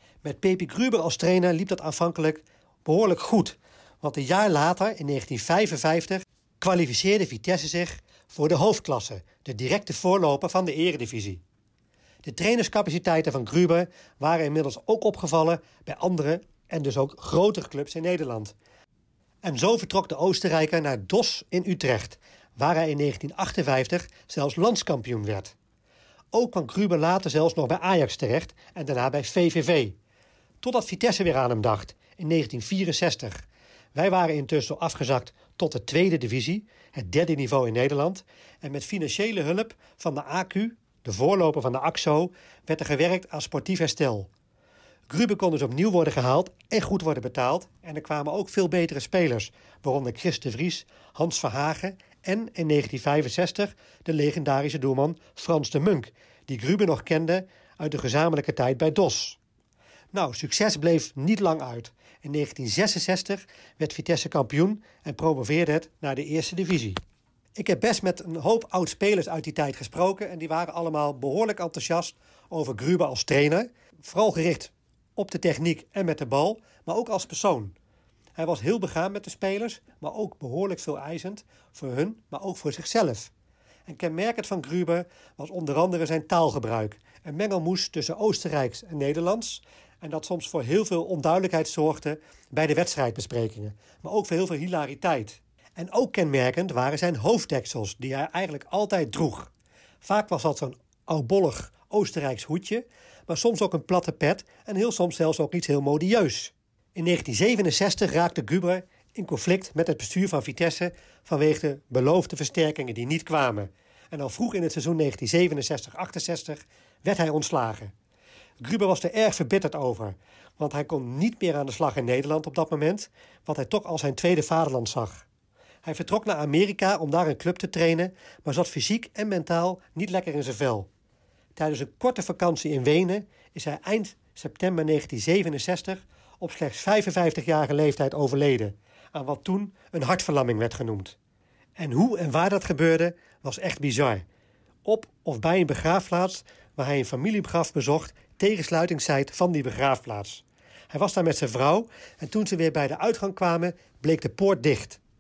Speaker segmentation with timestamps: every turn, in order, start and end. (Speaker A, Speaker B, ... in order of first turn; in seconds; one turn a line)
Speaker A: 0.2-11.4
Speaker A: 12.2-18.5
Speaker A: 19.4-25.5
Speaker A: 26.3-29.9
Speaker A: 30.6-33.4
Speaker A: 33.9-44.3
Speaker A: 45.1-59.4
Speaker A: 60.1-67.0
Speaker A: 67.5-77.8
Speaker A: 78.3-83.3
Speaker A: 83.9-99.5
Speaker A: 100.0-117.9
Speaker A: 118.6-125.2
Speaker A: 125.8-130.9
Speaker A: 131.6-141.1
Speaker A: 141.8-144.2
Speaker A: 144.8-155.0